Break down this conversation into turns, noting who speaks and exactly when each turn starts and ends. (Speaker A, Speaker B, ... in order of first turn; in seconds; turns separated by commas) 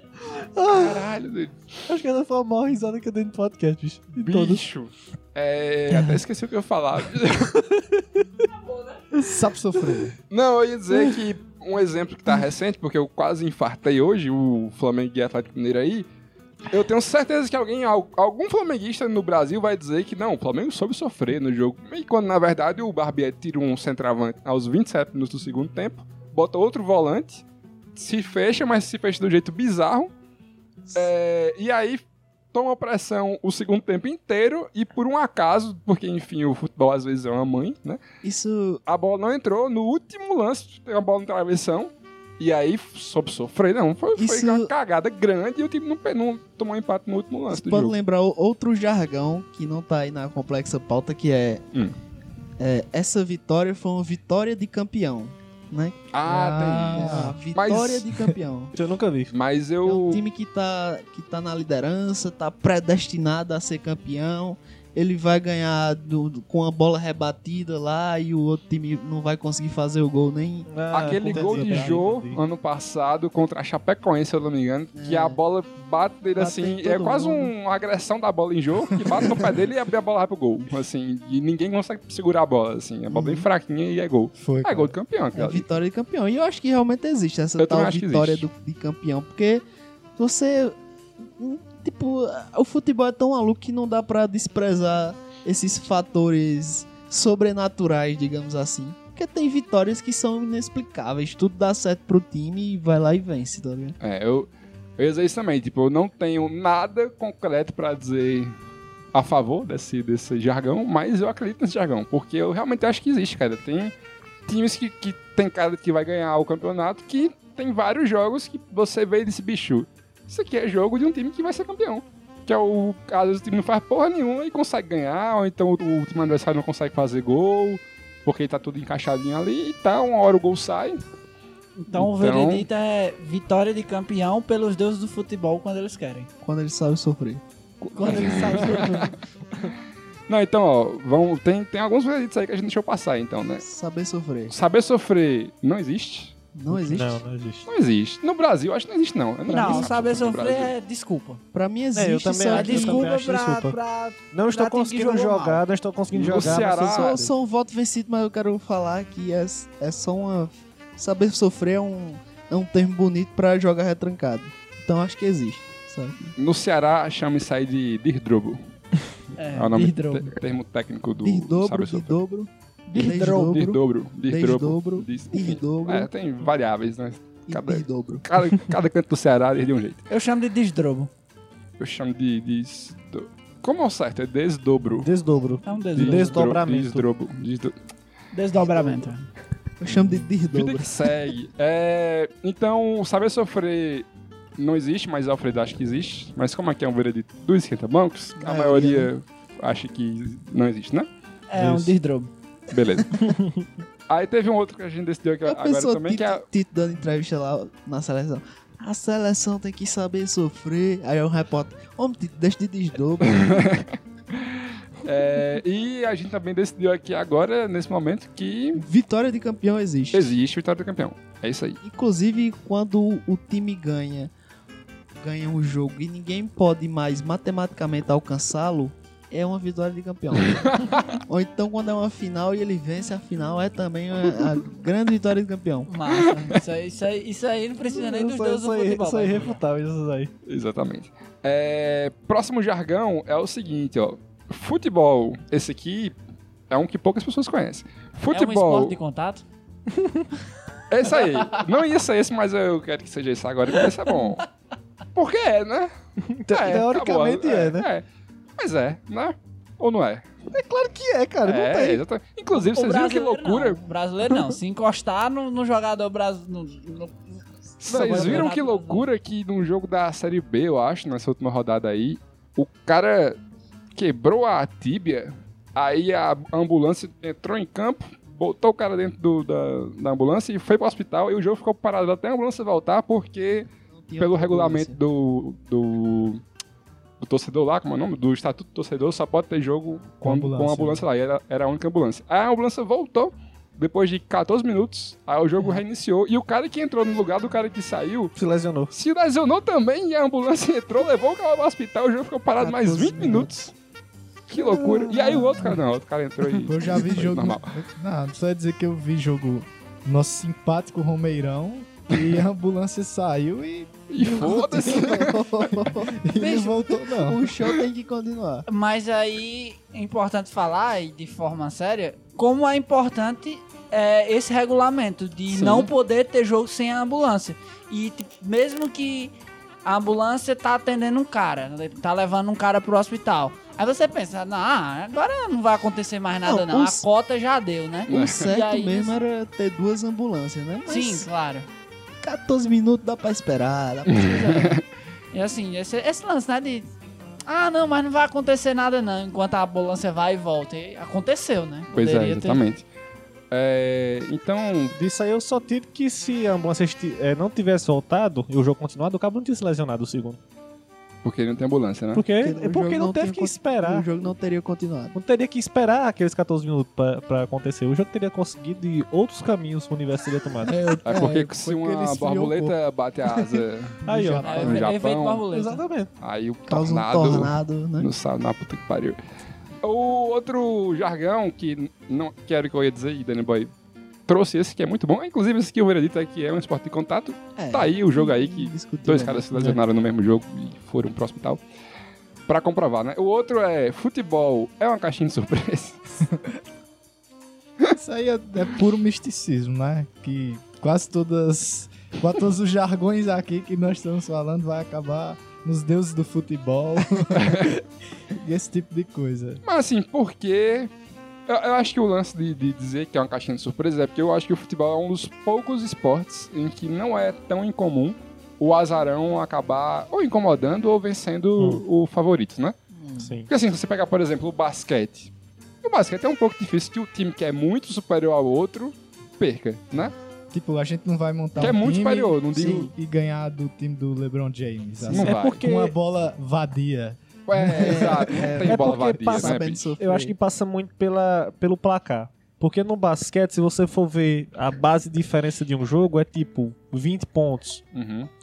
Speaker A: 0.2-1.1, Speaker B: 0.7-1.9, Speaker A: 1.9-4.6, Speaker B: 4.2-7.6, Speaker A: 7.6-8.2, Speaker C: 9.2-10.1, Speaker B: 10.3-16.1, Speaker B: 16.7-27.4, Speaker B: 28.0-30.1, Speaker B: 30.9-38.0, Speaker D: 38.2-38.8, Speaker B: 38.9-48.0, Speaker D: 44.2-44.7, Speaker D: 47.5-51.6, Speaker D: 52.6-58.7, Speaker B: 56.1-58.1, Speaker C: 56.3-57.4, Speaker A: 58.7-59.3, Speaker B: 59.3-60.2, Speaker D: 59.9-70.7, Speaker A: 70.7-72.4, Speaker B: 70.9-85.7, Speaker D: 71.3-71.8, Speaker D: 75.0-75.4, Speaker D: 76.4-77.5, Speaker D: 83.1-83.5, Speaker C: 84.4-85.0, Speaker D: 85.3-89.6, Speaker B: 87.6-88.5, Speaker D: 90.2-104.0, Speaker B: 104.0-108.5, Speaker B: 109.1-113.9, Speaker B: 114.5-131.0, Speaker E: 131.8-136.3, Speaker B: 131.9-132.7, Speaker D: 136.4-137.4, Speaker E: 137.8-139.1, Speaker A: 138.0-139.7, Speaker B: 138.1-139.1, Speaker B: 140.3-143.7, Speaker D: 143.6-144.5, Speaker B: 144.5-146.3, Speaker D: 146.6-147.2, Speaker A: 146.7-147.7, Speaker B: 147.7-150.7, Speaker E: 149.5-151.4, Speaker D: 149.6-149.9, Speaker D: 151.5-153.1, Speaker A: 151.9-153.8, Speaker E: 152.5-155.6, Speaker A: 154.3-157.3, Speaker B: 156.1-157.2, Speaker D: 156.3-166.3, Speaker B: 166.4-168.6, Speaker E: 169.4-170.3, Speaker B: 169.6-172.2, Speaker D: 171.2-176.1, Speaker E: 172.9-173.6, Speaker B: 173.0-180.0, Speaker D: 177.5-178.3, Speaker E: 180.1-181.1, Speaker B: 181.8-185.1, Speaker A: 185.0-187.1, Speaker E: 185.7-186.5, Speaker B: 186.0-187.7, Speaker E: 188.3-189.3, Speaker D: 189.8-191.1, Speaker B: 190.5-194.1, Speaker B: 194.6-201.1, Speaker D: 198.4-199.1, Speaker E: 201.5-202.3, Speaker A: 201.6-201.9, Speaker B: 202.7-203.3, Speaker A: 203.2-203.7, Speaker B: 204.1-206.4, Speaker D: 205.5-213.7, Speaker B: 213.2-218.8, Speaker D: 218.8-220.3, Speaker B: 220.1-221.8, Speaker D: 221.8-224.3, Speaker D: 225.2-235.9, Speaker B: 230.5-231.1, Speaker E: 235.9-239.6, Speaker A: 237.9-240.3, Speaker B: 240.5-246.1, Speaker B: 246.7-249.0, Speaker E: 248.3-249.4, Speaker A: 249.9-250.3, Speaker B: 250.9-254.4, Speaker E: 254.1-254.4, Speaker B: 255.2-255.9, Speaker A: 256.2-257.9, Speaker B: 256.5-258.0, Speaker B: 258.6-260.3, Speaker A: 260.5-262.0, Speaker B: 261.4-263.8, Speaker E: 262.5-269.1, Speaker B: 267.8-273.4, Speaker A: 267.9-268.5, Speaker B: 274.0-286.4, Speaker D: 283.9-285.0, Speaker B: 287.2-298.3, Speaker C: 290.2-291.0, Speaker A: 298.4-298.9, Speaker B: 298.9-303.7, Speaker D: 302.6-303.5, Speaker B: 304.5-307.7, Speaker A: 304.6-305.6, Speaker C: 306.6-314.5, Speaker B: 314.1-315.5, Speaker D: 314.2-318.7, Speaker C: 316.2-317.5, Speaker E: 318.7-329.3, Speaker B: 325.5-325.9, Speaker E: 329.9-339.2, Speaker D: 336.4-337.1, Speaker B: 338.1-338.6, Speaker D: 338.1-341.3, Speaker E: 340.9-341.7, Speaker D: 342.2-344.7, Speaker B: 344.1-344.8, Speaker E: 344.2-344.7, Speaker E: 345.3-346.9, Speaker E: 347.5-352.6, Speaker B: 351.9-352.9, Speaker B: 353.5-355.0, Speaker A: 354.9-360.4, Speaker B: 361.2-362.3, Speaker A: 362.1-364.1, Speaker D: 362.4-365.2, Speaker A: 365.1-370.8, Speaker C: 370.6-372.8, Speaker B: 371.1-375.4, Speaker A: 373.3-374.6, Speaker C: 374.1-374.9, Speaker E: 374.4-375.8, Speaker A: 375.5-376.1, Speaker B: 376.2-379.2, Speaker D: 376.7-378.1, Speaker B: 379.8-383.7, Speaker B: 384.3-391.6, Speaker D: 387.6-389.8, Speaker B: 392.5-396.2, Speaker C: 396.3-396.5, Speaker C: 397.9-407.8, Speaker B: 407.4-407.7, Speaker C: 408.3-409.6, Speaker B: 409.6-410.9, Speaker B: 411.5-422.8, Speaker A: 421.6-421.8, Speaker D: 423.0-423.3, Speaker A: 423.2-423.5, Speaker B: 423.5-425.3, Speaker B: 425.8-430.1, Speaker C: 430.5-438.3, Speaker B: 431.6-432.9, Speaker D: 432.5-432.9, Speaker B: 435.1-435.6, Speaker A: 435.2-435.9, Speaker B: 437.5-439.9, Speaker D: 437.7-440.4, Speaker A: 438.6-447.8, Speaker B: 447.9-448.3